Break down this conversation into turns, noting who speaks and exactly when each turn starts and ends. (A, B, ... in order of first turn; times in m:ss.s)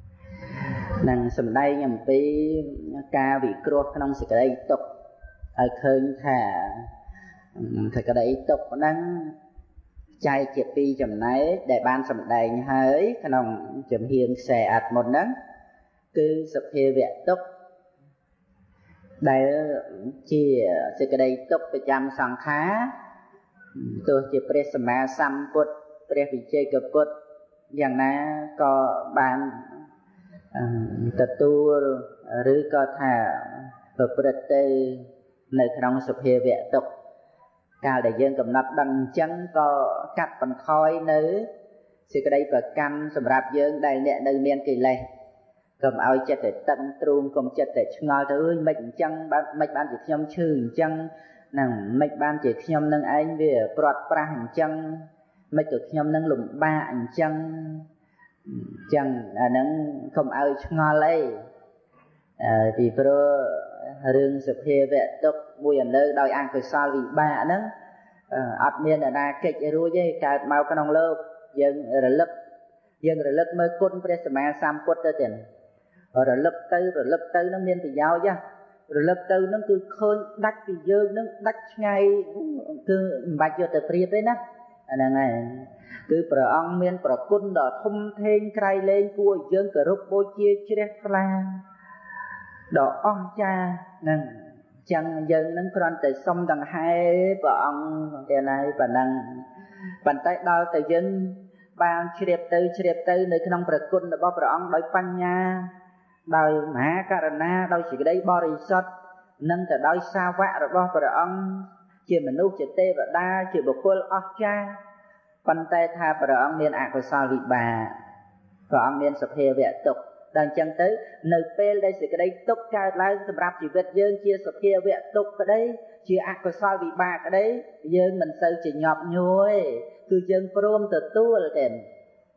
0:01.0-0:04.8 A
0:05.6-0:06.9 A
0:07.6-0:09.3 A
0:10.2-0:15.3 A
0:16.1-0:17.4 A
0:19.2-0:22.9 A
0:23.8-0:27.1 A
0:27.7-0:29.7 A
0:30.5-0:36.9 A
0:37.8-0:41.5 A
0:42.1-0:45.0 A
0:45.8-0:57.8 A
0:58.5-1:01.4 A
1:02.4-1:07.7 A
1:08.3-1:12.3 A
1:13.0-1:15.4 A
1:16.1-1:24.4 A
1:24.9-1:31.6 A
1:32.7-1:39.4 A
1:40.0-1:45.7 A
1:46.3-1:48.8 A
1:49.4-1:54.8 A
1:55.4-1:57.9 A
1:58.7-2:11.8 A